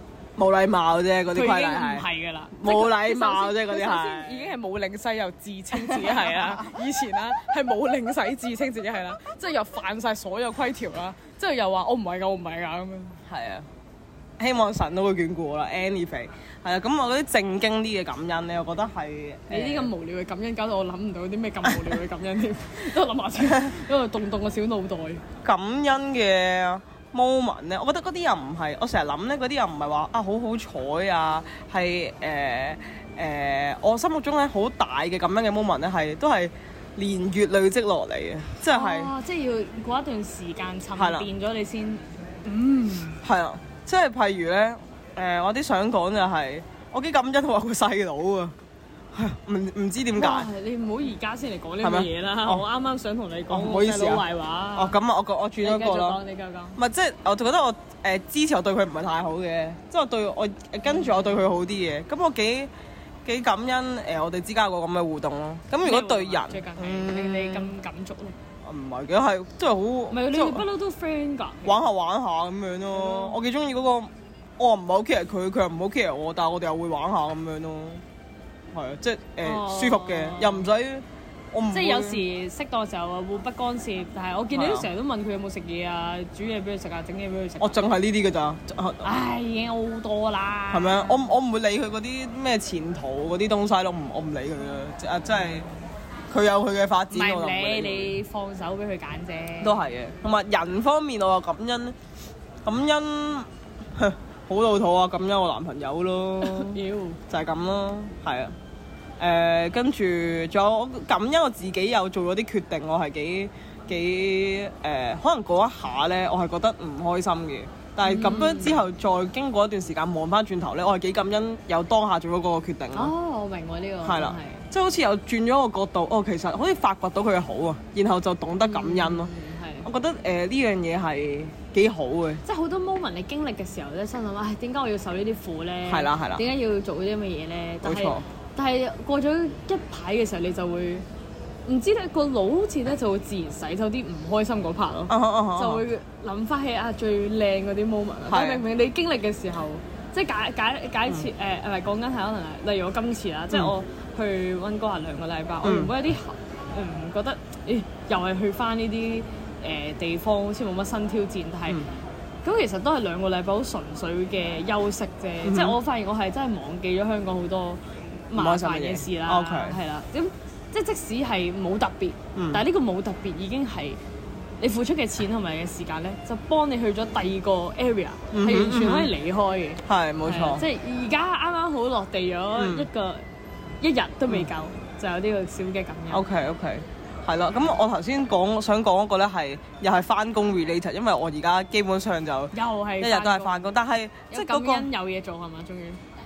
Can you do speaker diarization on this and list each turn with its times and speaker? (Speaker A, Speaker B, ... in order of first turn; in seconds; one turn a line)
Speaker A: 0.4-4.5
Speaker B: 1.3-13.2
Speaker A: 5.7-6.7
Speaker A: 13.3-13.7
Speaker A: 14.4-19.9
Speaker B: 19.5-25.2
Speaker A: 23.4-23.7
Speaker A: 25.4-39.1
Speaker B: 38.6-43.2
Speaker A: 41.0-41.3
Speaker A: 43.2-48.5
Speaker A: 49.1-50.5
Speaker B: 50.1-55.0
Speaker A: 51.8-52.6
Speaker A: 53.5-56.2
Speaker B: 55.6-56.8
Speaker A: 56.8-62.7
Speaker A: 63.2-67.7
Speaker B: 65.8-68.3
Speaker A: 68.6-70.6
Speaker B: 70.1-71.8
Speaker A: 71.6-78.0
Speaker B: 72.9-73.4
Speaker A: 78.7-82.2
Speaker B: 79.4-80.7
Speaker B: 81.7-87.8
Speaker A: 84.5-84.9
Speaker A: 87.6-89.1
Speaker B: 89.0-91.3
Speaker A: 90.7-95.7
Speaker A: 96.3-98.2
Speaker B: 97.1-99.8
Speaker A: 99.6-102.0
Speaker A: 102.6-108.5
Speaker B: 106.4-107.2
Speaker A: 109.2-123.1
Speaker B: 118.0-118.8
Speaker B: 122.9-124.7
Speaker A: 124.0-129.3
Speaker B: 128.6-129.9
Speaker A: 129.8-132.4
Speaker B: 132.4-141.0
Speaker A: 135.9-136.4
Speaker A: 137.8-138.2
Speaker B: 141.7-161.8
Speaker A: 145.1-145.8
Speaker A: 148.3-148.6
Speaker A: 155.6-155.9
Speaker B: 162.4-174.0
Speaker A: 165.4-165.8
Speaker A: 168.3-169.8
Speaker A: 172.3-172.6
Speaker B: 174.6-183.2
Speaker A: 178.3-179.1
Speaker A: 179.8-180.6
Speaker A: 182.5-182.9
Speaker B: 183.8-186.2
Speaker A: 186.1-194.9
Speaker B: 192.5-193.7
Speaker B: 194.3-196.0